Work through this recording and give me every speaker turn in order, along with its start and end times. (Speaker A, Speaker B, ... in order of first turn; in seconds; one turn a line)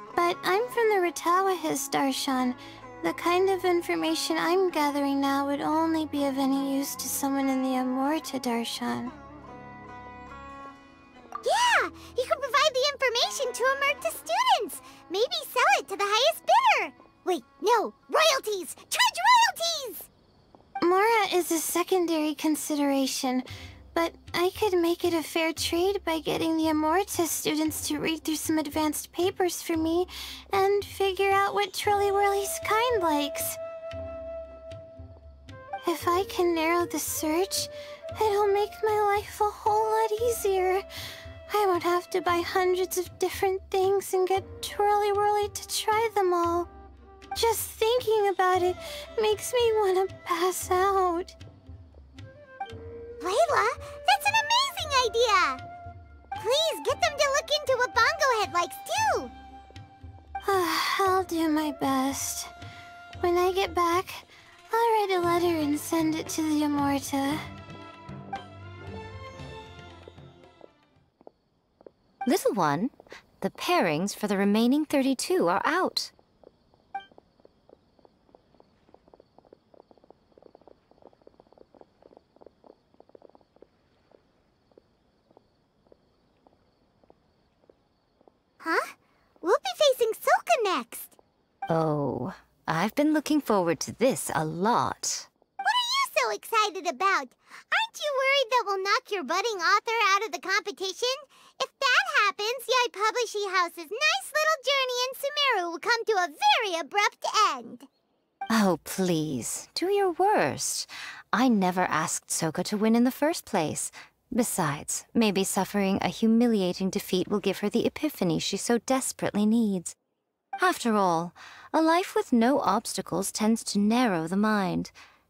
Speaker A: 0.1-9.1
Speaker B: 11.4-20.1
Speaker A: 20.8-33.6
Speaker A: 35.8-40.8
Speaker A: 41.5-46.7
Speaker A: 47.3-51.3
Speaker B: 53.2-55.6
Speaker B: 56.4-59.3
Speaker A: 60.4-62.5
Speaker A: 63.2-67.4
Speaker C: 72.2-76.1
Speaker B: 88.6-91.2
Speaker C: 91.7-95.3
Speaker B: 95.6-107.9
Speaker C: 108.5-120.0
Speaker C: 120.6-124.9